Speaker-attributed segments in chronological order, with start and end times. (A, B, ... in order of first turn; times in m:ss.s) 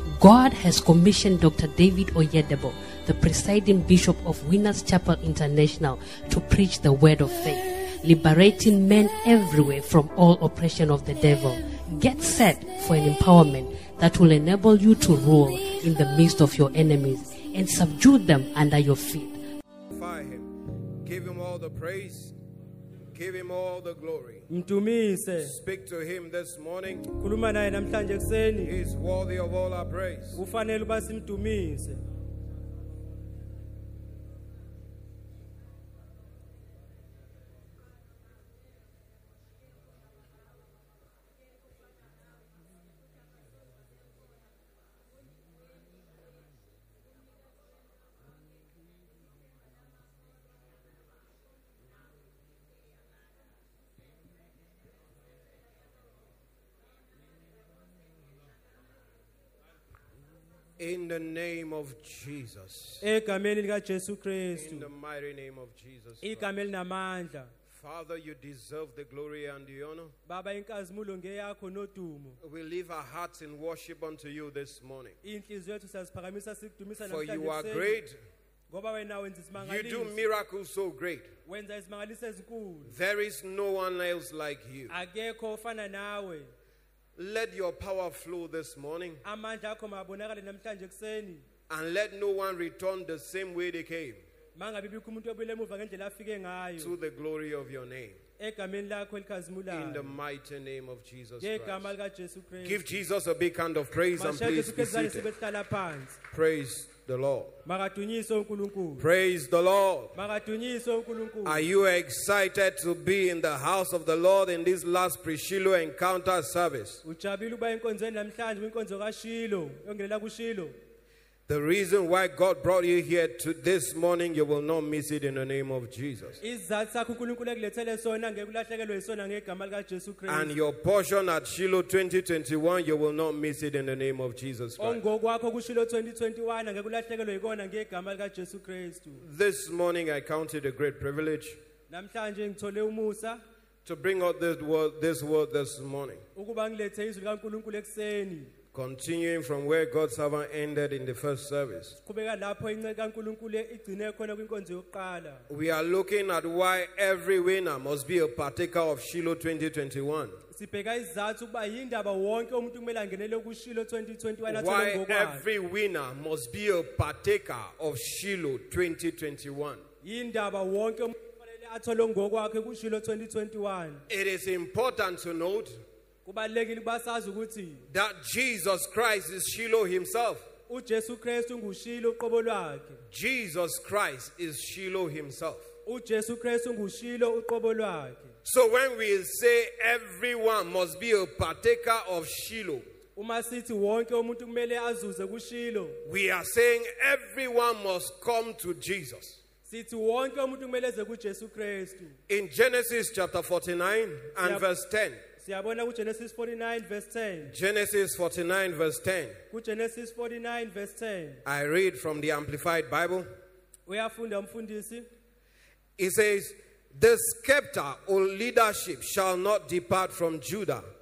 0:00.2-0:19.4 A
0:19.9-0:22.4 B
0:23.1-0:24.5 B
0:24.5-0:25.5 C
0:25.4-0:27.1 B
0:27.1-0:28.7 C
0:28.6-0:30.4 B
0:30.4-0:32.0 C
1:00.8-1:03.0 B
1:03.0-1:04.9 C
1:04.6-1:06.5 B
1:06.2-1:07.5 C
1:07.7-1:10.1 B
1:10.3-1:12.4 C
1:12.4-1:15.2 B
1:15.2-1:18.0 C
1:17.0-1:18.2 B
1:18.7-1:20.3 C
1:19.6-1:21.3 B
1:21.5-1:23.0 C
1:22.9-1:25.0 B
1:24.9-1:26.5 C
1:27.2-1:29.2 B
1:29.2-1:31.4 C
1:31.7-1:34.2 B
1:34.6-1:36.9 C
1:36.8-1:38.2 B
1:38.4-1:40.2 C
1:39.7-1:41.9 B
1:41.4-1:43.0 C
1:42.6-1:45.3 B
1:44.2-1:46.2 C
1:46.3-1:47.5 B
1:47.7-1:49.1 C
1:49.0-1:50.1 B
1:50.2-1:51.6 C
1:51.4-1:57.0 B
1:57.0-2:00.8 C
2:01.5-2:06.4 B
2:06.4-2:10.5 C
2:10.3-2:15.0 B
2:14.8-2:19.2 C
2:19.2-2:21.6 B
2:21.9-2:23.4 C
2:23.8-2:26.2 B
2:26.4-2:28.5 C
2:28.7-2:32.0 B
2:32.1-2:35.4 C
2:35.5-2:40.4 B
2:40.5-2:45.4 C
2:44.5-2:49.8 B
2:50.0-2:54.0 C
2:54.1-2:55.8 B
2:56.3-2:57.8 C
2:57.9-3:00.5 B
3:00.7-3:03.0 C
3:03.1-3:05.7 B
3:05.9-3:08.3 C
3:08.4-3:12.8 B
3:13.2-3:16.0 C
3:16.0-3:19.4 B
3:19.7-3:22.2 C
3:22.3-3:25.2 B
3:25.4-3:27.5 C
3:27.5-3:29.4 B
3:29.5-3:31.4 C
3:31.4-3:33.3 B
3:33.9-3:35.1 C
3:36.0-3:40.8 B